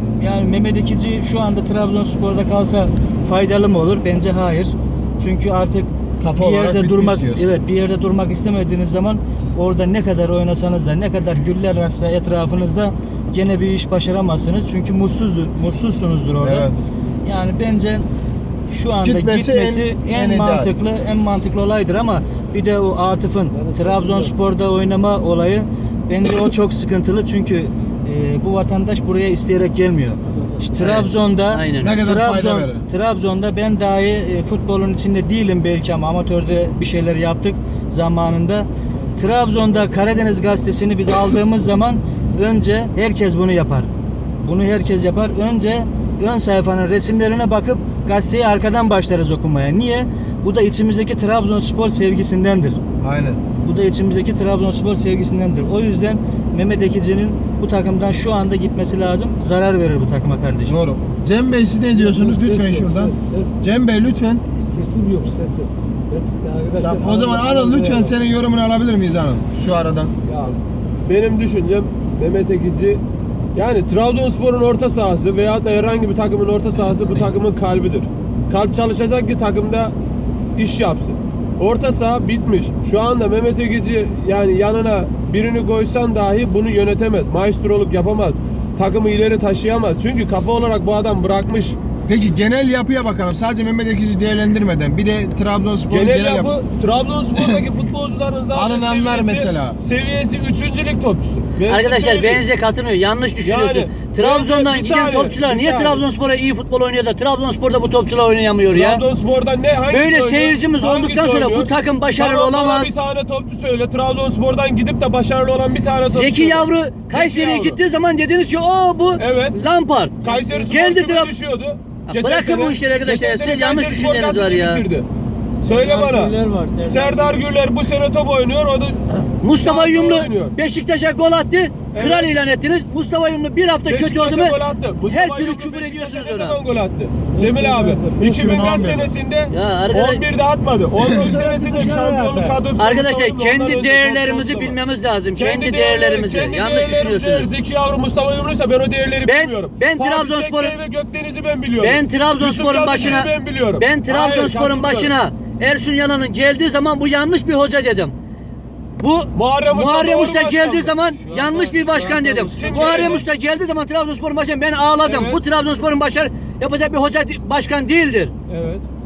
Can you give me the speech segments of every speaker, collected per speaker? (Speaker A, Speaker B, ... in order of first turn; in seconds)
Speaker A: 0.2-16.7, 17.2-18.1, 18.7-43.9, 44.4-52.8, 53.6-60.8, 161.1-163.2
Speaker B: 6.2-7.5, 16.4-16.8, 19.0-20.7, 31.8-32.9, 53.0-53.4, 60.7-64.4, 66.8-70.1, 92.1-96.6, 98.5-99.8, 138.3-139.1
Speaker C: 23.6-24.3, 61.9-63.5, 64.6-68.2, 125.6-127.4, 137.3-138.9, 141.1-142.6
Speaker D: 30.8-31.9, 101.7-109.0, 109.9-113.0, 116.1-121.3, 122.2-124.8, 129.4-134.6, 135.1-136.6, 139.5-140.2, 142.8-147.5, 149.2-150.7, 151.8-158.2, 159.0-168.3
Speaker E: 70.3-73.0, 73.5-80.0, 80.6-91.8, 95.9-102.4, 103.4-106.0, 108.7-117.8, 119.2-119.6, 120.2-125.1, 125.6-130.6, 131.9-132.4, 133.9-144.8, 145.4-155.2, 159.3-161.0, 162.5-163.2, 165.0-165.4, 168.5-168.8